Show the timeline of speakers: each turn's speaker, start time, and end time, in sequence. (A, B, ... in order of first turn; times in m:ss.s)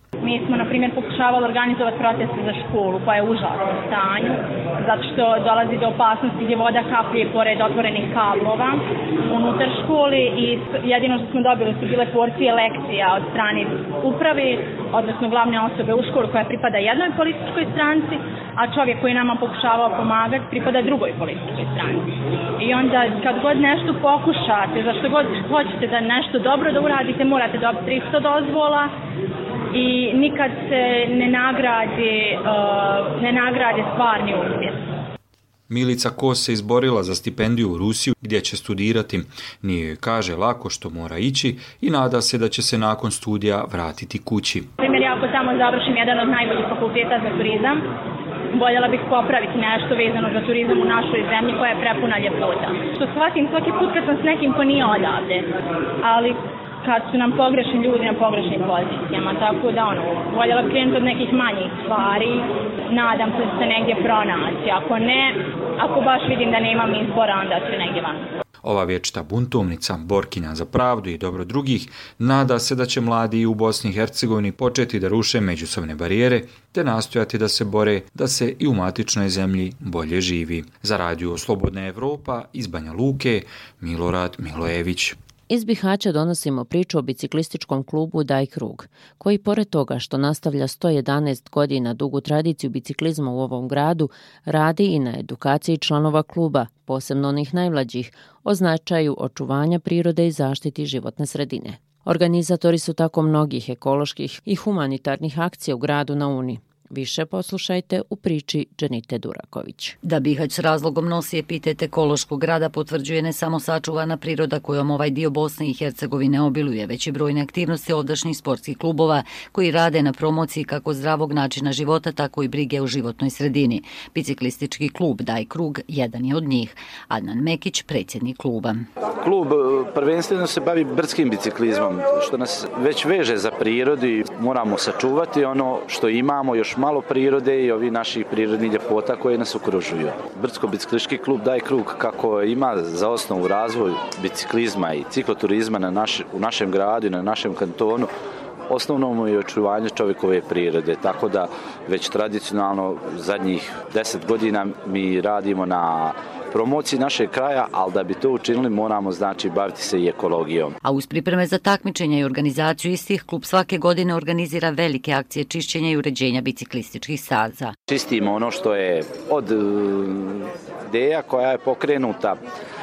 0:00.2-0:28.9 A
0:29.7-0:34.8 A
0:35.7-0:44.7 B
0:44.8-0:47.8 A
0:48.5-0:55.5 A
0:56.0-1:08.3 A
1:08.6-1:25.2 B
1:25.5-1:50.0 C
1:50.0-2:08.9 D
2:09.2-2:28.1 E
2:28.7-2:40.8 E
2:40.8-2:47.7 D
2:47.9-2:52.4 E